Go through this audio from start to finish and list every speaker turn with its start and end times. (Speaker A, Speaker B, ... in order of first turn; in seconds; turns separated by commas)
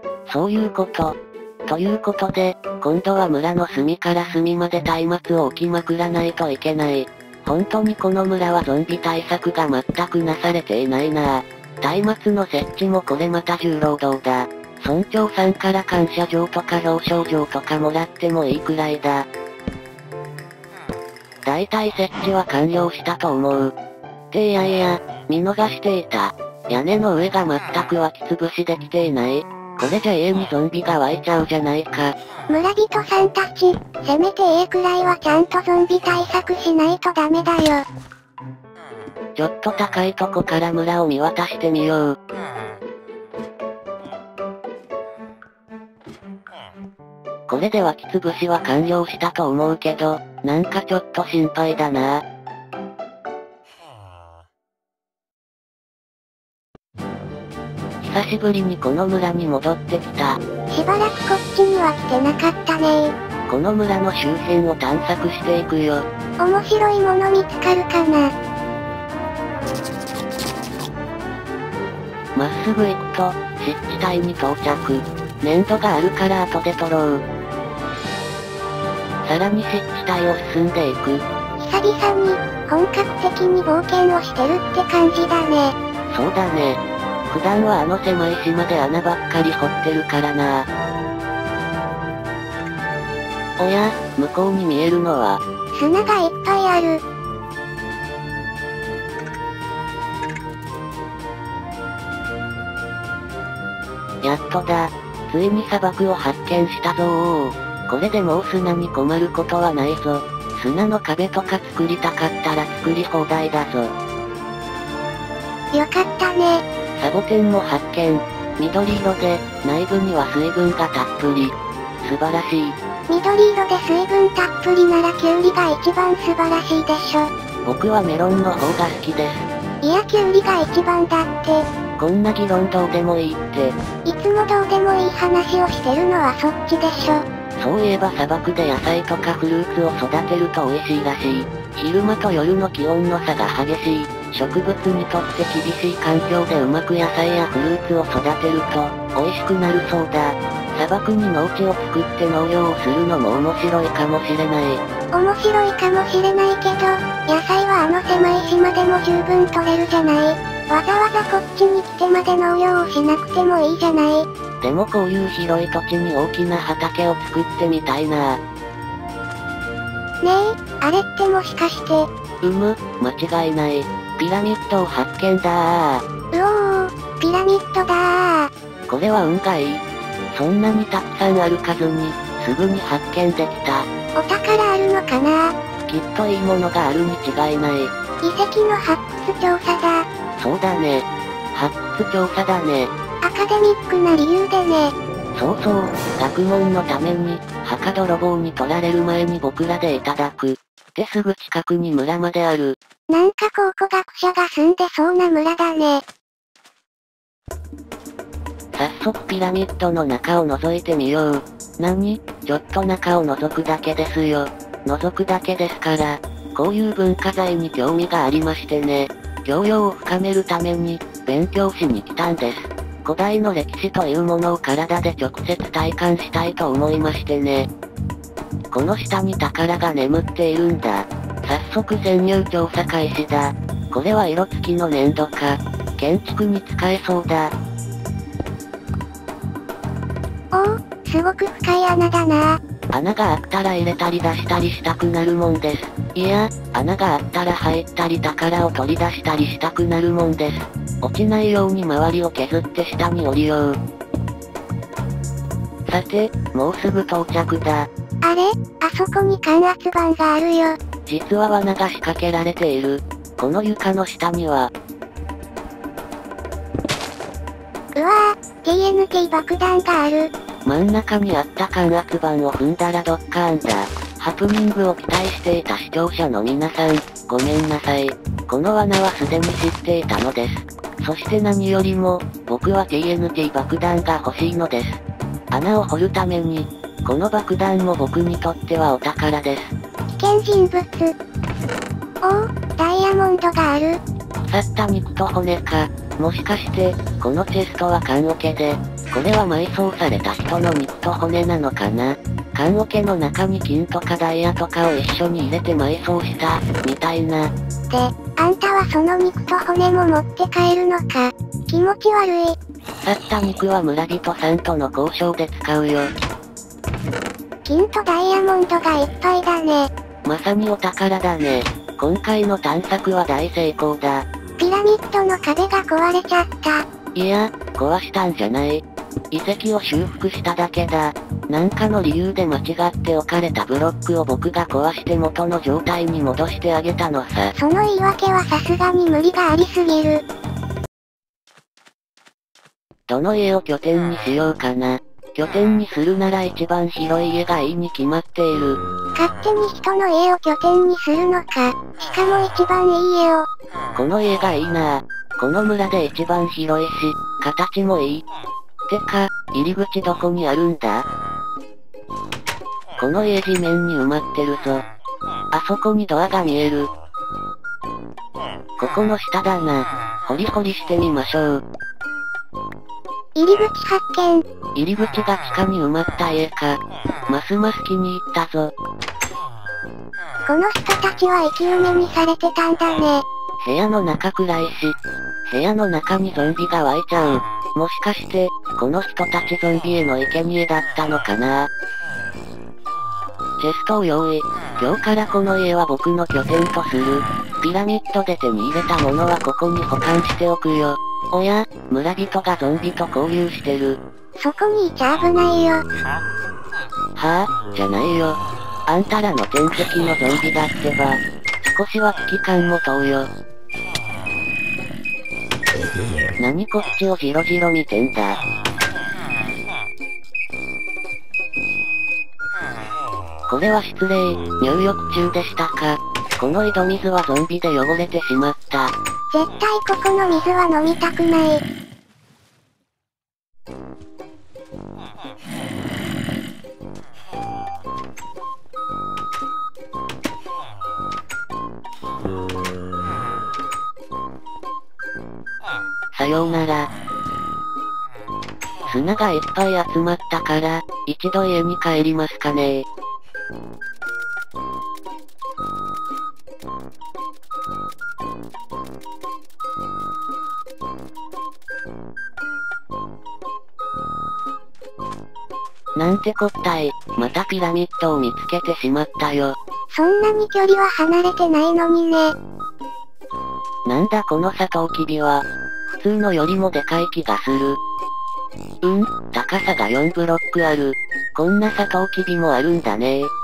Speaker A: 0.3-19.3, Speaker A: 21.4-23.7, Speaker A: 24.3-32.1, Speaker B: 32.5-37.9, Speaker A: 39.4-42.2, Speaker A: 47.5-52.2, Speaker A: 58.0-60.4, Speaker B: 60.7-63.1, Speaker A: 63.5-66.0, Speaker B: 66.4-68.3, Speaker A: 72.3-77.2, Speaker A: 79.2-81.2, Speaker B: 81.6-85.8, Speaker A: 86.1-90.7, Speaker A: 93.6-95.4, Speaker B: 95.7-97.0, Speaker A: 104.2-113.9, Speaker B: 115.7-116.6, Speaker A: 117.0-122.8, Speaker B: 123.1-127.3, Speaker A: 127.6-129.5, Speaker B: 129.8-131.7, Speaker A: 132.0-133.8, Speaker B: 134.0-137.2, Speaker A: 137.6-154.8, Speaker B: 155.1-164.3, Speaker A: 164.6-168.4, Speaker B: 170.2-172.1, Speaker A: 172.4-176.0, Speaker B: 176.3-178.5, Speaker A: 178.9-183.8, Speaker B: 184.2-185.5, Speaker A: 185.9-187.9, Speaker B: 188.2-190.1, Speaker A: 190.4-192.9, Speaker B: 193.2-194.9, Speaker A: 195.3-202.8, Speaker B: 203.1-206.0, Speaker A: 208.7-227.7, Speaker A: 228.7-237.5, Speaker B: 240.5-242.6, Speaker A: 242.9-253.8, Speaker A: 255.9-257.9, Speaker B: 258.2-260.8, Speaker A: 261.1-264.7, Speaker B: 268.0-270.3, Speaker A: 270.6-289.7, Speaker B: 290.1-291.1, Speaker B: 292.2-294.0, Speaker A: 294.4-307.5, Speaker B: 307.9-312.6, Speaker A: 313.0-316.1, Speaker B: 317.6-319.9, Speaker A: 320.2-324.2, Speaker B: 324.6-326.9, Speaker A: 327.1-337.5, Speaker B: 337.5-340.2, Speaker A: 343.1-348.8, Speaker B: 349.1-353.5, Speaker A: 353.9-358.2, Speaker A: 358.9-361.1, Speaker A: 363.0-364.8, Speaker A: 365.5-366.9, Speaker A: 368.8-371.6, Speaker B: 373.4-374.4, Speaker A: 374.7-378.7, Speaker B: 380.4-383.2, Speaker A: 383.6-391.7, Speaker A: 393.6-404.0, Speaker B: 404.4-405.8, Speaker A: 407.2-413.3, Speaker A: 416.4-418.4, Speaker A: 423.5-428.9, Speaker B: 429.3-431.6, Speaker A: 446.1-446.9, Speaker A: 448.9-452.9, Speaker A: 465.9-469.6, Speaker B: 469.9-472.3, Speaker A: 473.9-477.8, Speaker A: 478.8-483.3